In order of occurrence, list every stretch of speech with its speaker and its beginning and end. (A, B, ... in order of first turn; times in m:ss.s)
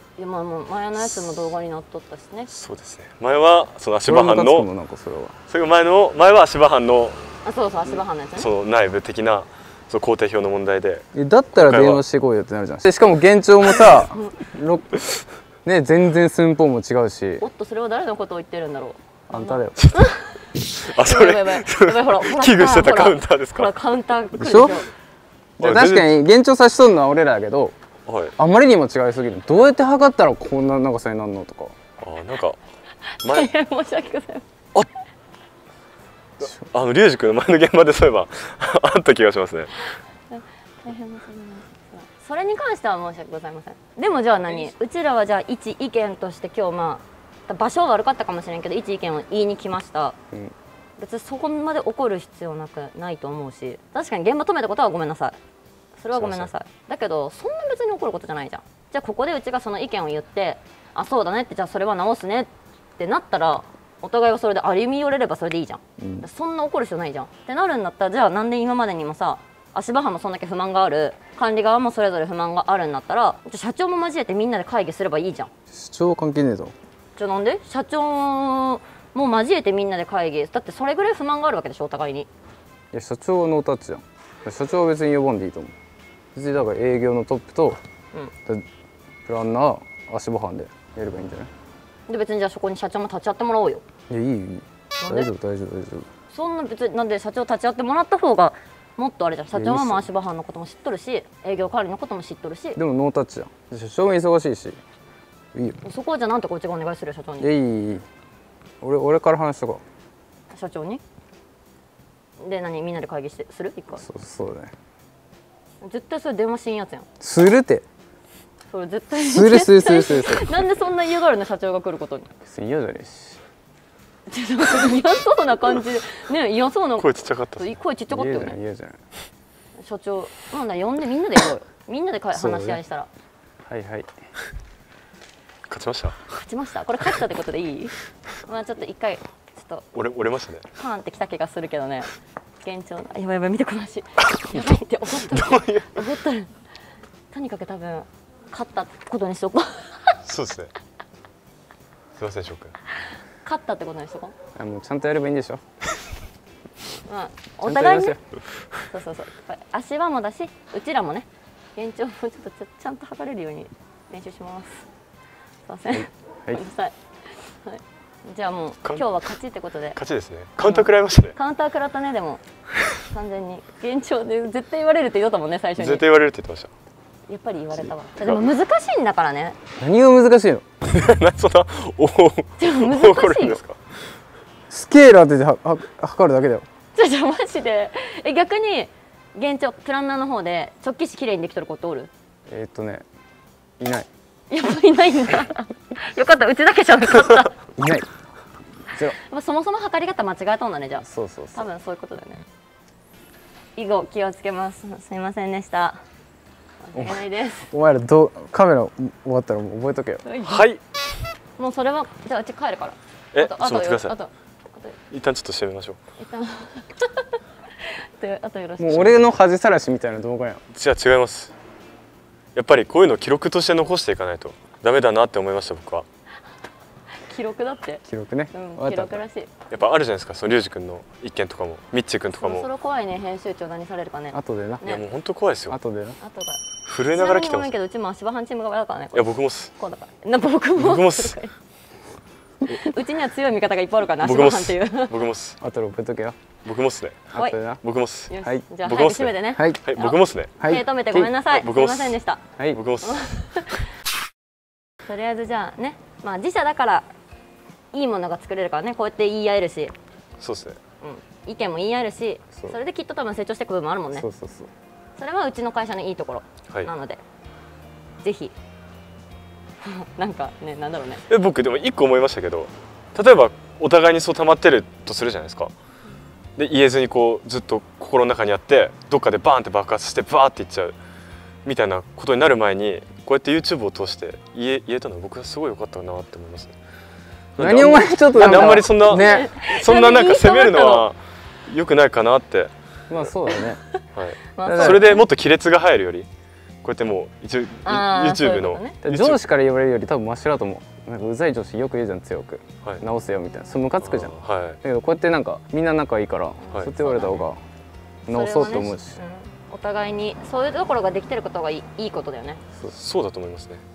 0:00.2-0:02.5 A
0:01.0-0:01.4 B
0:02.5-0:04.7 B
0:04.1-0:05.4 C
0:05.5-0:07.2 B
0:07.4-0:08.5 A
0:08.4-0:11.0 B
0:11.1-0:15.0 C
0:11.6-0:12.0 B
0:15.6-0:17.4 C
0:17.4-0:24.9 A
0:19.3-0:19.8 C
0:19.8-0:23.7 B
0:24.4-0:24.8 C
0:25.6-0:27.8 C
0:25.6-0:26.2 B
0:28.1-0:28.4 B
0:28.4-0:31.8 C
0:32.0-0:32.6 B
0:33.2-0:33.5 B
0:33.2-0:34.4 A
0:36.4-0:39.7 B
0:40.3-0:50.2 A
0:51.0-0:55.4 A
0:56.0-1:15.5 A
0:56.1-0:56.5 B
1:06.0-1:06.2 C
1:15.7-1:16.7 C
1:17.2-1:22.3 A
1:22.9-1:25.7 C
1:26.3-1:27.8 C
1:29.3-1:31.5 C
1:32.1-1:33.8 A
1:34.1-1:36.1 C
1:35.0-1:35.3 A
1:36.3-1:42.8 A
1:39.5-1:40.1 C
1:42.8-1:44.8 C
1:45.8-1:47.5 A
1:47.4-1:48.0 C
1:48.8-1:49.8 C
1:50.5-1:51.0 A
1:52.4-1:54.0 A
1:54.0-1:54.7 C
1:55.8-1:57.1 A
1:57.2-1:57.8 C
1:58.7-2:02.3 A
1:59.2-2:00.6 C
2:02.4-2:03.4 C
2:04.3-2:08.6 A
2:07.0-2:07.7 B
2:08.1-2:09.0 C
2:09.8-2:13.1 A
2:12.3-2:12.8 C
2:13.7-2:14.1 C
2:15.7-2:16.3 B
2:16.3-2:19.9 A
2:19.9-2:20.7 B
2:20.8-2:22.1 A
2:22.6-2:26.5 A
2:24.2-2:26.1 B
2:27.3-2:30.2 A
2:30.2-2:30.7 B
2:32.2-2:32.8 B
2:33.4-2:34.3 A
2:34.6-2:35.6 C
2:37.0-2:38.2 A
2:37.6-2:38.2 C
2:38.9-2:44.9 A
2:45.7-2:50.0 A
2:48.8-2:49.2 B
2:50.0-2:51.4 B
2:50.6-2:52.4 A
2:53.1-2:56.0 A
2:55.8-2:56.7 B
2:57.3-2:59.6 A
2:57.7-2:58.4 B
2:59.8-3:00.6 C
3:00.8-3:03.8 B
3:02.6-3:03.6 A
3:04.7-3:06.7 C
3:07.0-3:12.1 A
3:12.5-3:13.0 C
3:13.8-3:14.1 C
3:14.5-3:17.6 A
3:17.8-3:18.1 C
3:19.0-3:22.4 A
3:21.1-3:21.7 C
3:23.8-3:26.0 A
3:26.8-3:27.7 A
3:27.0-3:30.2 C
3:30.2-3:30.7 A
3:30.4-3:30.8 B
3:31.6-3:35.0 A
3:33.3-3:34.2 B
3:35.1-3:36.0 B
3:36.2-3:39.2 A
3:38.8-3:40.6 C
3:40.7-3:41.5 B
3:42.6-3:46.0 B
3:47.3-3:49.6 A
3:48.1-3:49.2 C
3:49.7-3:52.7 B
3:52.3-3:55.0 A
3:54.3-3:55.0 C
3:54.8-3:55.8 B
3:55.7-3:56.2 C
3:56.2-3:56.6 A
3:56.8-3:57.7 B
3:57.1-4:01.5 A
3:59.1-3:59.7 B
4:00.8-4:01.4 B
4:02.7-4:05.2 A
4:04.2-4:05.6 B
4:05.6-4:06.4 C
4:06.6-4:10.7 B
4:07.3-4:07.8 C
4:07.3-4:07.6 A
4:08.3-4:13.9 A
4:09.5-4:09.8 C
4:10.6-4:11.3 C
4:11.4-4:13.4 B
4:12.6-4:12.8 C
4:15.0-4:17.1 A
4:17.9-4:19.9 A
4:20.4-4:20.8 B
4:21.0-4:24.3 A
4:24.2-4:24.7 C
4:25.2-4:27.2 A
4:28.2-4:28.5 A
4:29.8-4:31.2 A
4:31.3-4:35.7 B
4:36.6-4:41.0 B
4:41.6-4:46.8 B
4:47.6-4:53.4 B
4:47.6-4:49.5 C
4:48.4-4:51.1 A
4:53.1-4:53.8 C
4:53.5-4:55.2 A
4:54.1-4:56.3 B
4:54.6-4:55.2 C
4:56.8-4:59.4 B
4:57.8-4:59.0 A
4:59.0-5:07.6 C
5:04.0-5:04.8 B
5:06.6-5:07.4 A
5:06.7-5:07.0 B
5:08.3-5:09.2 C
5:08.3-5:12.6 A
5:12.9-5:13.8 B